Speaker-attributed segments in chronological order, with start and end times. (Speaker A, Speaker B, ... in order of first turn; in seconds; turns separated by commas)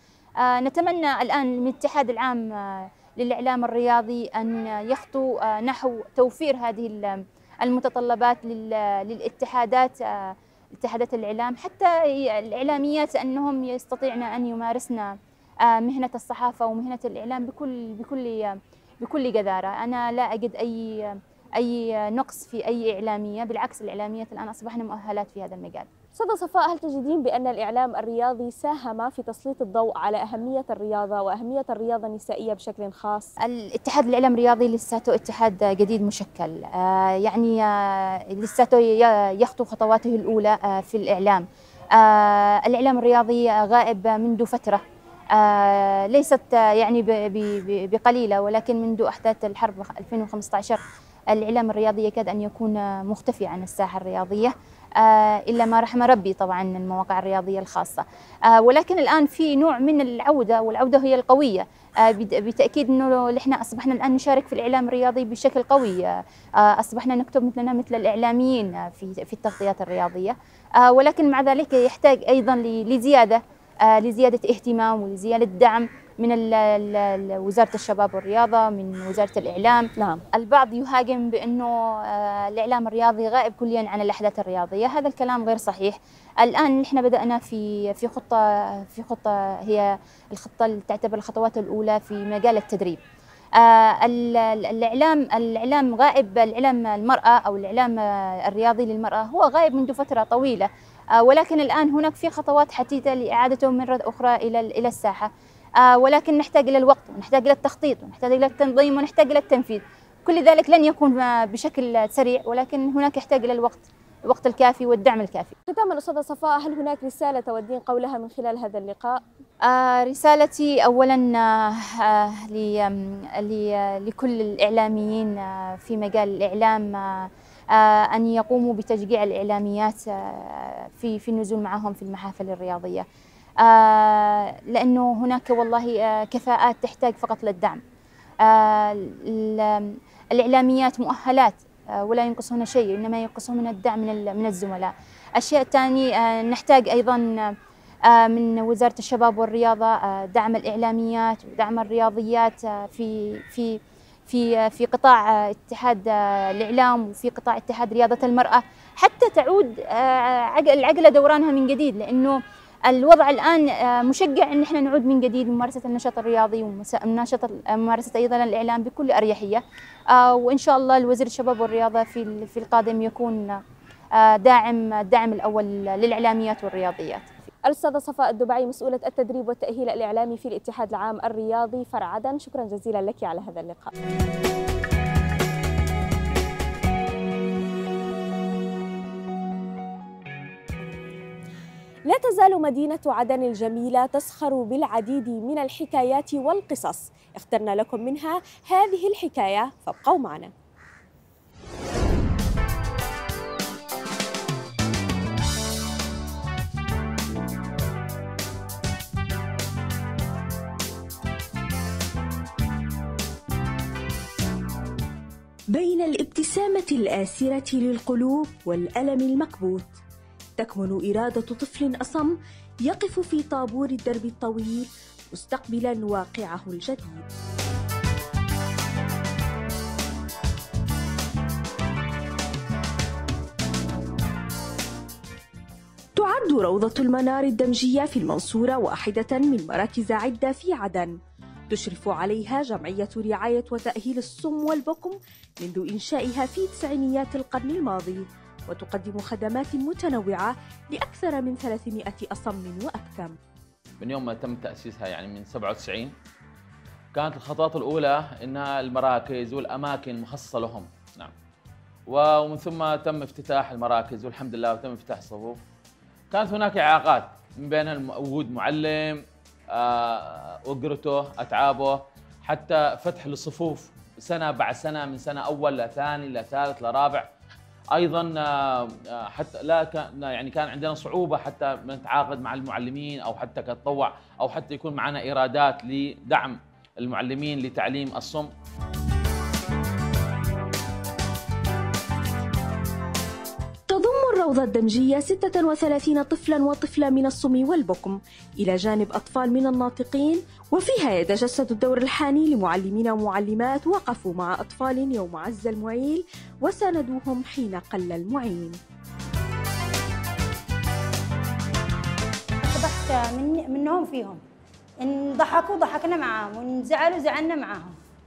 Speaker A: 0.4-25.9, Speaker B: 26.1-33.3, Speaker A: 33.4-44.8, Speaker A: 45.3-50.8, Speaker A: 51.3-93.0, Speaker B: 80.0-80.2, Speaker A: 93.5-115.5, Speaker B: 115.7-119.2, Speaker A: 119.7-133.0, Speaker A: 133.6-137.8, Speaker A: 138.4-147.5, Speaker A: 148.1-173.6, Speaker A: 174.1-177.3, Speaker B: 177.6-183.9, Speaker B: 192.1-200.5, Speaker C: 215.7-220.0, Speaker C: 220.6-227.2, Speaker C: 236.2-241.1, Speaker C: 241.7-253.4, Speaker D: 254.0-256.1, Speaker D: 257.1-261.3, Speaker D: 262.1-265.6, Speaker D: 266.3-277.3, Speaker D: 277.9-288.5, Speaker C: 293.9-308.8, Speaker E: 312.6-314.4, Speaker E: 315.0-317.9